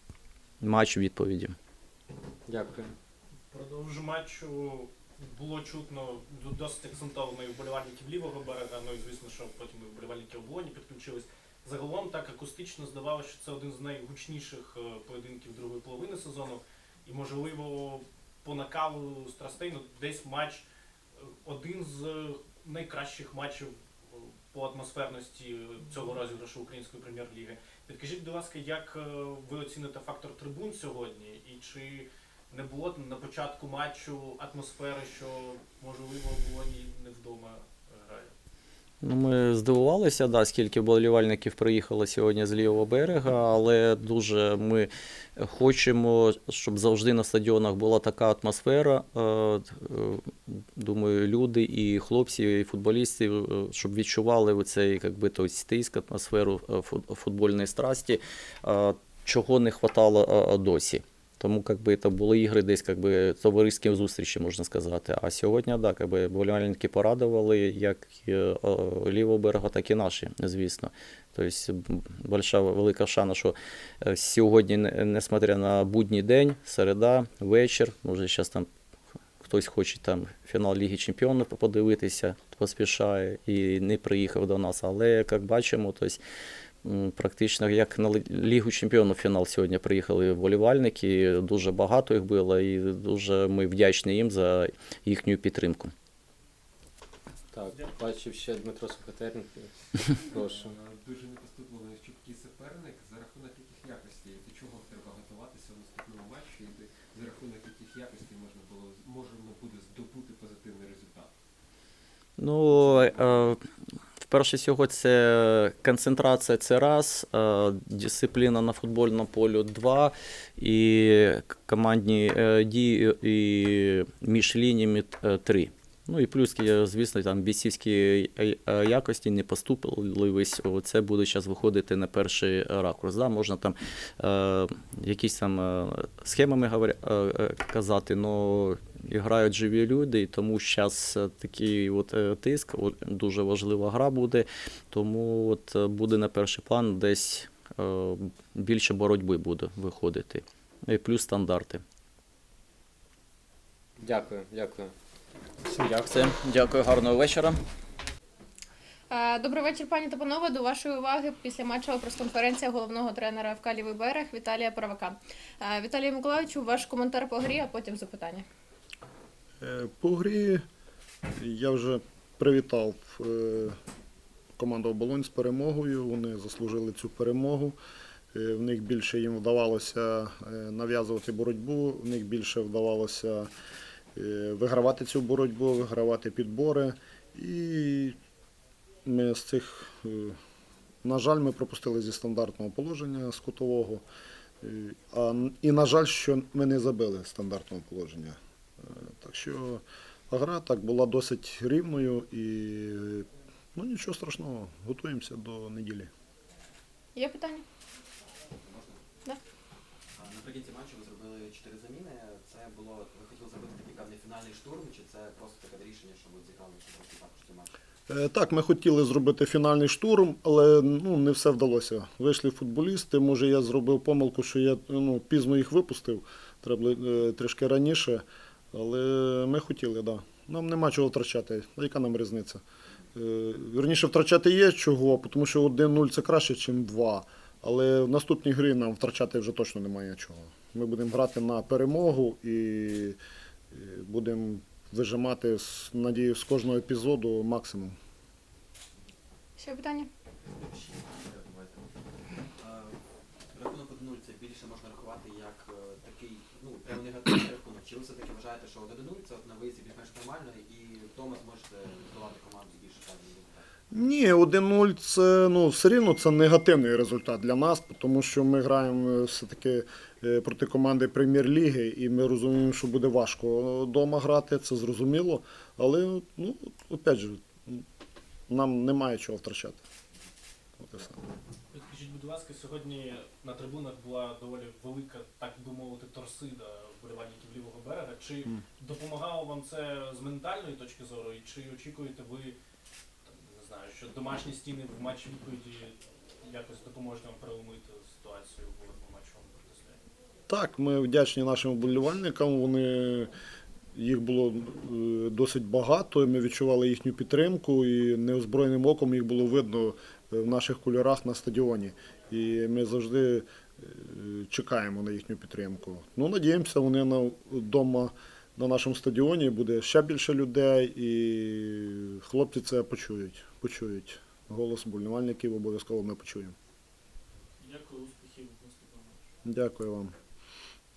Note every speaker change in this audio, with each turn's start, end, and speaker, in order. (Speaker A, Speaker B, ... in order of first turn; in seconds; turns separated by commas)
Speaker A: 0.6-1.5, Speaker B: 3.5-20.7, Speaker B: 21.2-38.3, Speaker A: 39.0-78.7, Speaker A: 79.4-86.2, Speaker A: 86.8-95.9, Speaker C: 97.6-99.6, Speaker B: 97.6-98.0, Speaker D: 100.4-111.3, Speaker A: 112.4-113.6, Speaker D: 112.7-113.3, Speaker A: 114.2-151.8, Speaker C: 154.0-154.8, Speaker A: 155.7-157.6, Speaker E: 159.1-168.4, Speaker F: 169.6-170.6, Speaker F: 171.4-173.8, Speaker F: 174.6-177.8, Speaker F: 178.3-183.5, Speaker F: 184.1-188.2, Speaker F: 189.1-190.4, Speaker F: 191.0-194.0, Speaker F: 194.6-206.1, Speaker E: 207.1-207.6, Speaker G: 208.5-209.0, Speaker G: 210.1-217.7, Speaker F: 218.1-232.6, Speaker F: 233.1-243.2, Speaker F: 243.7-247.9, Speaker E: 249.6-250.1, Speaker G: 250.4-251.9, Speaker G: 252.6-263.7, Speaker F: 263.9-277.9, Speaker F: 278.5-279.8, Speaker F: 280.8-281.2, Speaker B: 281.7-292.6, Speaker B: 293.2-300.0, Speaker F: 300.5-303.3, Speaker F: 303.9-326.5, Speaker B: 327.6-329.2, Speaker F: 329.4-330.1